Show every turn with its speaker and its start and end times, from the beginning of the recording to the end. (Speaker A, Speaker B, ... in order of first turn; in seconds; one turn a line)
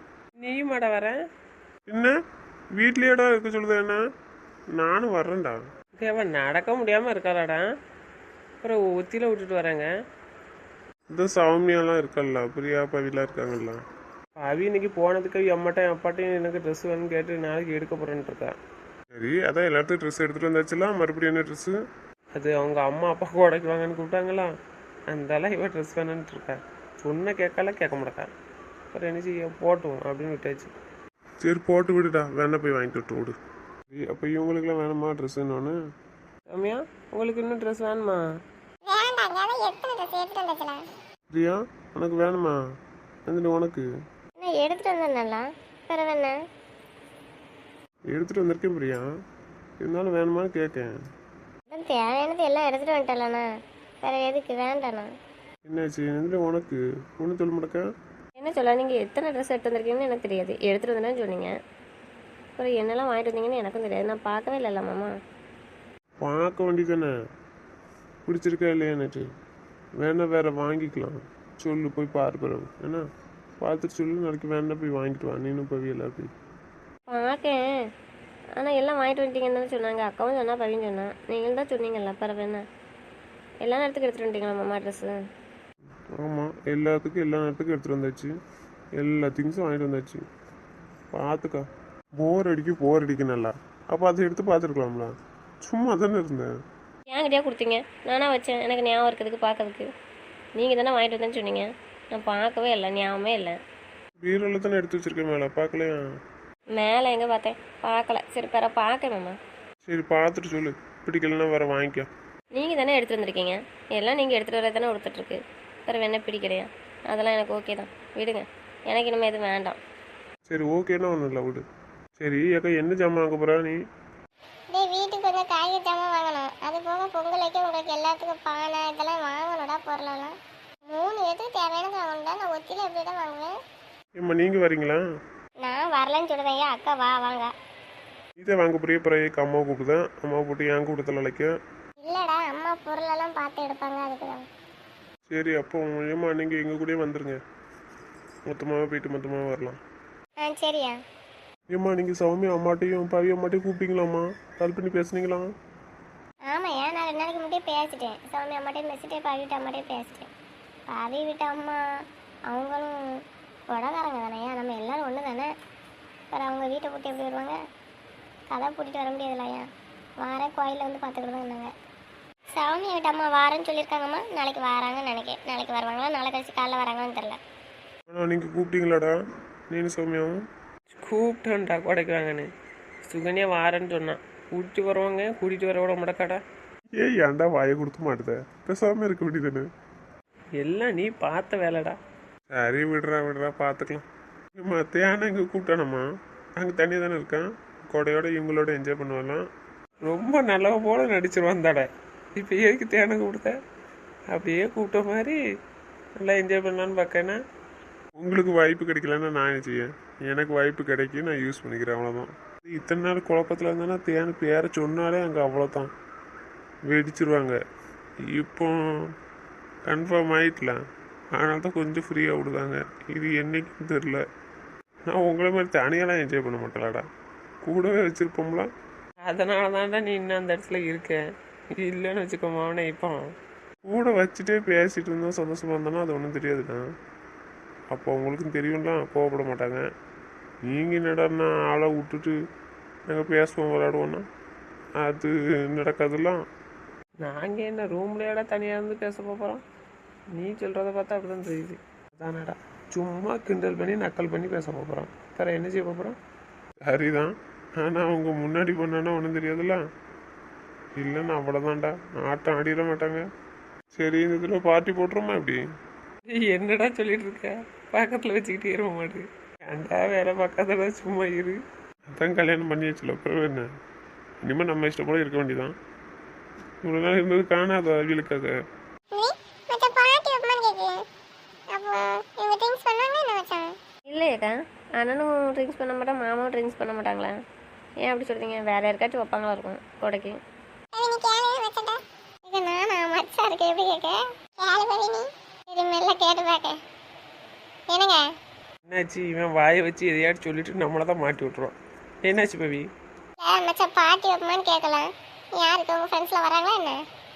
Speaker A: 0.4-1.2
Speaker B: 1.9-2.1
Speaker B: 2.8-4.0
Speaker B: 4.8-5.6
Speaker A: 6.0-7.6
Speaker A: 8.6-9.9
Speaker B: 11.1-13.8
Speaker A: 14.4-18.5
Speaker B: 19.1-21.8
Speaker A: 22.4-24.4
Speaker A: 25.1-28.3
Speaker A: 28.9-30.7
Speaker B: 31.4-33.4
Speaker B: 33.9-35.8
Speaker A: 36.5-38.2
Speaker C: 38.9-40.8
Speaker B: 41.3-42.6
Speaker B: 43.3-43.9
Speaker C: 44.4-46.3
Speaker B: 48.1-49.0
Speaker B: 49.8-50.9
Speaker C: 51.7-53.5
Speaker C: 54.0-55.1
Speaker B: 55.7-57.9
Speaker D: 58.4-61.5
Speaker D: 62.6-65.1
Speaker B: 66.2-67.1
Speaker B: 68.3-69.3
Speaker B: 70.0-73.0
Speaker B: 73.6-76.3
Speaker D: 77.1-77.6
Speaker D: 78.6-82.6
Speaker D: 83.6-85.1
Speaker B: 86.1-88.3
Speaker B: 89.0-90.2
Speaker B: 91.1-91.7
Speaker B: 92.2-96.5
Speaker D: 97.1-99.9
Speaker D: 100.6-103.6
Speaker B: 104.2-106.0
Speaker D: 106.8-109.4
Speaker B: 109.8-112.1
Speaker D: 112.5-119.8
Speaker B: 120.5-121.6
Speaker B: 122.2-123.8
Speaker C: 124.7-130.3
Speaker C: 130.9-133.5
Speaker B: 134.2-135.0
Speaker C: 135.6-137.5
Speaker B: 138.4-141.5
Speaker C: 142.0-144.5
Speaker B: 145.3-147.4
Speaker B: 148.5-149.8
Speaker C: 150.4-151.0
Speaker B: 151.7-155.5
Speaker C: 156.5-160.3
Speaker C: 160.9-161.8
Speaker C: 162.5-163.0
Speaker C: 163.7-165.5
Speaker C: 166.3-167.6
Speaker C: 168.5-169.7
Speaker C: 170.2-171.7
Speaker C: 172.5-177.4
Speaker B: 178.1-179.2
Speaker B: 179.7-180.4
Speaker A: 181.0-182.5
Speaker A: 183.1-186.4
Speaker B: 187.0-189.7
Speaker A: 190.6-192.0
Speaker B: 192.5-196.1
Speaker B: 196.6-199.4
Speaker A: 200.1-203.5
Speaker A: 204.3-205.4
Speaker A: 206.2-207.3
Speaker B: 208.2-215.9
Speaker B: 216.9-217.6
Speaker B: 218.3-219.1
Speaker B: 219.9-220.8
Speaker B: 221.4-224.2
Speaker B: 225.1-227.0
Speaker B: 227.6-228.7
Speaker A: 229.3-231.2
Speaker A: 231.8-233.2
Speaker B: 233.9-236.8
Speaker B: 237.9-239.9
Speaker B: 240.7-242.4
Speaker B: 243.1-244.2
Speaker B: 245.0-246.4
Speaker A: 247.2-249.6
Speaker A: 250.3-256.2
Speaker B: 256.9-259.8
Speaker B: 261.0-263.3
Speaker B: 263.9-265.6
Speaker A: 266.3-269.2
Speaker B: 269.7-270.4
Speaker A: 270.4-271.5
Speaker B: 272.1-273.7
Speaker B: 274.4-275.8
Speaker B: 276.8-278.5
Speaker C: 279.1-281.1
Speaker C: 281.7-283.8
Speaker D: 284.1-287.3
Speaker D: 288.0-290.4
Speaker C: 290.9-296.8
Speaker C: 297.9-298.2
Speaker B: 298.9-302.8
Speaker C: 303.4-307.0